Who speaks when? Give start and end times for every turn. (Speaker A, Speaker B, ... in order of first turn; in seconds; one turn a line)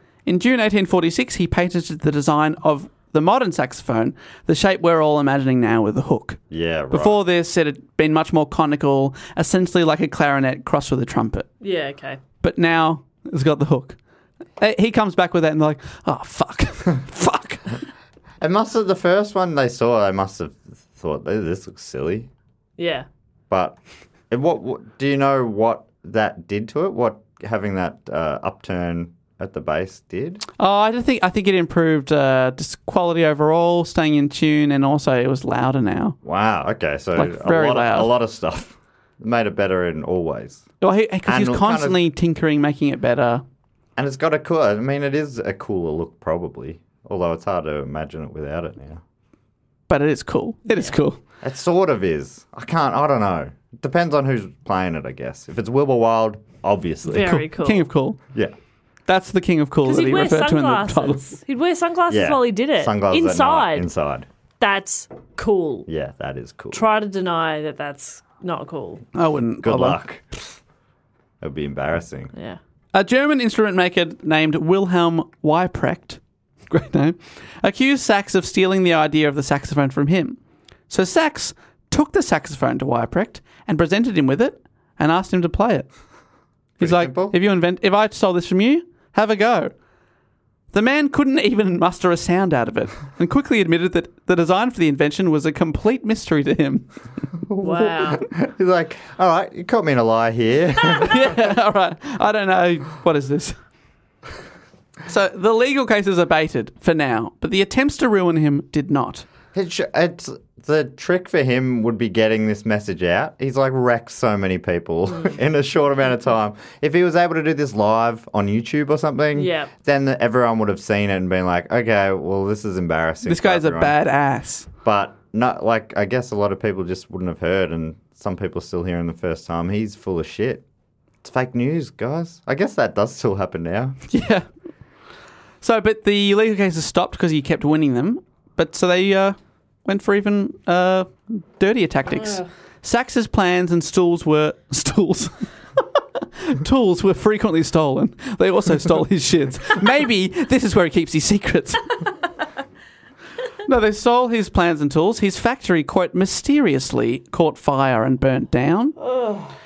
Speaker A: 0.3-11.5
Speaker B: 6.5-7.2
Speaker C: 11.6-12.2
Speaker A: 12.4-14.0
Speaker A: 14.6-17.8
Speaker B: 18.4-22.3
Speaker C: 22.8-23.1
Speaker B: 23.5-23.8
Speaker B: 24.3-30.4
Speaker A: 30.6-36.2
Speaker B: 36.2-40.6
Speaker A: 37.2-38.1
Speaker A: 40.8-43.4
Speaker B: 41.2-42.0
Speaker B: 44.0-49.0
Speaker A: 49.9-51.2
Speaker B: 51.4-57.3
Speaker C: 57.1-57.9
Speaker A: 57.1-58.2
Speaker A: 59.1-61.2
Speaker C: 59.9-63.9
Speaker B: 62.1-64.3
Speaker C: 64.6-65.9
Speaker B: 65.9-66.8
Speaker C: 66.7-69.0
Speaker A: 69.2-70.0
Speaker B: 69.6-70.5
Speaker B: 71.4-72.3
Speaker C: 72.3-72.6
Speaker A: 72.9-80.4
Speaker A: 80.9-85.9
Speaker B: 86.8-87.4
Speaker A: 86.8-89.7
Speaker A: 90.7-96.9
Speaker B: 97.5-101.2
Speaker C: 97.6-98.2
Speaker A: 100.9-103.6
Speaker A: 105.1-109.3
Speaker B: 109.5-123.9
Speaker C: 119.3-119.7
Speaker A: 123.2-124.7
Speaker B: 124.8-130.6
Speaker B: 131.2-134.0
Speaker A: 134.1-134.5
Speaker A: 135.6-145.4
Speaker C: 142.1-142.5
Speaker A: 146.4-152.0
Speaker A: 153.7-159.0
Speaker C: 159.2-159.5